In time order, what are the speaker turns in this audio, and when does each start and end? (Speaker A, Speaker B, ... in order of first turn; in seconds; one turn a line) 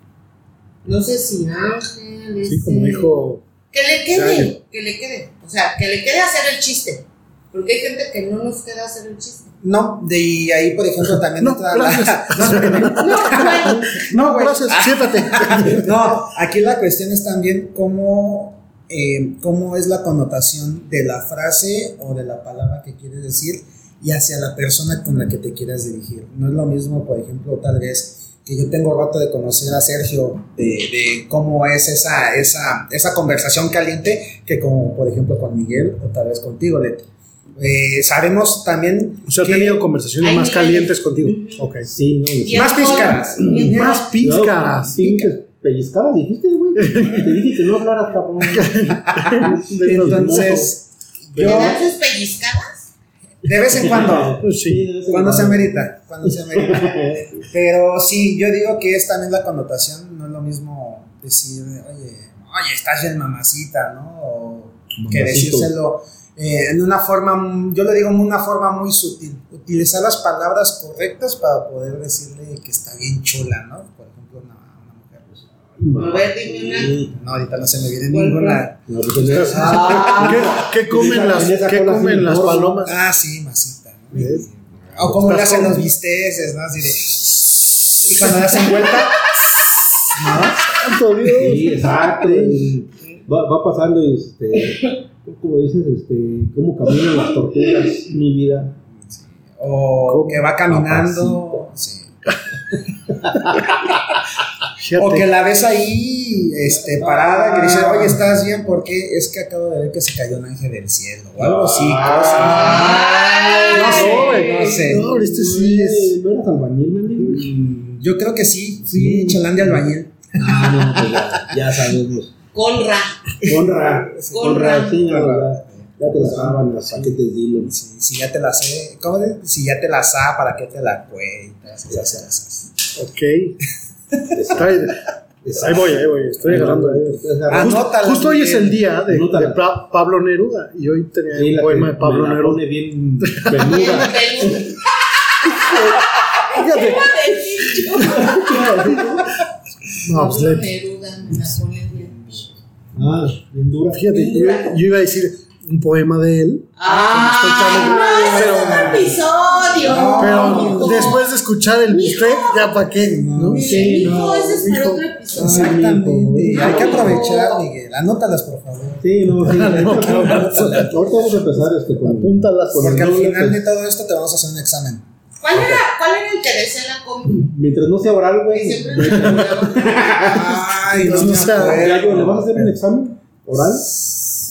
Speaker A: 0.8-3.2
Speaker B: 2.5-3.4
Speaker A: 3.7-9.5
Speaker C: 4.1-4.5
Speaker C: 9.6-37.1
Speaker B: 11.4-16.1
Speaker A: 13.0-14.1
Speaker C: 37.6-39.9
Speaker B: 39.3-41.9
Speaker A: 40.2-41.7
Speaker D: 41.8-50.7
Speaker A: 42.4-43.8
Speaker C: 42.5-44.1
Speaker B: 43.6-45.2
Speaker C: 45.0-45.3
Speaker B: 46.8-47.3
Speaker B: 48.5-50.7
Speaker C: 49.1-51.9
Speaker D: 51.3-51.8
Speaker A: 51.4-52.9
Speaker C: 53.4-54.4
Speaker D: 53.7-55.7
Speaker B: 54.4-54.9
Speaker C: 55.1-75.3
Speaker D: 56.5-57.5
Speaker D: 65.0-65.7
Speaker D: 75.8-77.2
Speaker A: 76.0-76.9
Speaker C: 77.1-80.1
Speaker A: 78.1-78.7
Speaker D: 78.9-82.9
Speaker B: 79.2-83.0
Speaker A: 79.5-80.5
Speaker C: 82.9-89.4
Speaker B: 84.1-84.5
Speaker B: 85.1-85.8
Speaker C: 90.1-90.7
Speaker B: 90.7-92.6
Speaker D: 91.3-98.8
Speaker C: 99.0-102.1
Speaker B: 100.1-100.5
Speaker D: 100.7-101.4
Speaker B: 104.8-105.3
Speaker C: 105.0-115.1
Speaker D: 106.9-108.0
Speaker D: 111.4-118.0
Speaker A: 112.5-114.7
Speaker B: 113.7-116.1
Speaker C: 118.0-121.3
Speaker D: 118.8-119.8
Speaker D: 120.4-122.3
Speaker A: 122.5-123.4
Speaker D: 123.4-127.7
Speaker C: 123.5-132.7
Speaker A: 124.3-125.0
Speaker B: 132.9-133.6
Speaker D: 134.3-134.8
Speaker B: 134.5-142.6
Speaker D: 135.4-137.8
Speaker C: 137.5-138.8
Speaker D: 139.1-139.6
Speaker D: 141.3-144.7
Speaker B: 143.2-144.2
Speaker A: 143.6-148.7
Speaker B: 145.5-145.9
Speaker B: 146.4-148.2
Speaker D: 148.0-149.3
Speaker B: 150.0-150.7
Speaker A: 150.0-152.4
Speaker D: 152.9-154.5
Speaker B: 153.9-159.0
Speaker A: 154.1-154.8
Speaker A: 156.8-161.2
Speaker D: 157.6-159.1
Speaker C: 159.8-161.2
Speaker B: 160.2-163.8
Speaker A: 161.9-162.7
Speaker C: 162.9-164.1
Speaker A: 163.5-165.7
Speaker D: 163.5-167.3
Speaker C: 165.3-171.0
Speaker A: 166.5-167.6
Speaker D: 169.0-173.6
Speaker B: 169.4-171.0
Speaker B: 172.0-173.1
Speaker C: 172.8-175.0
Speaker A: 175.4-177.5
Speaker D: 177.4-183.9
Speaker A: 178.5-180.6
Speaker C: 180.2-182.8
Speaker B: 181.1-181.8
Speaker C: 183.9-184.2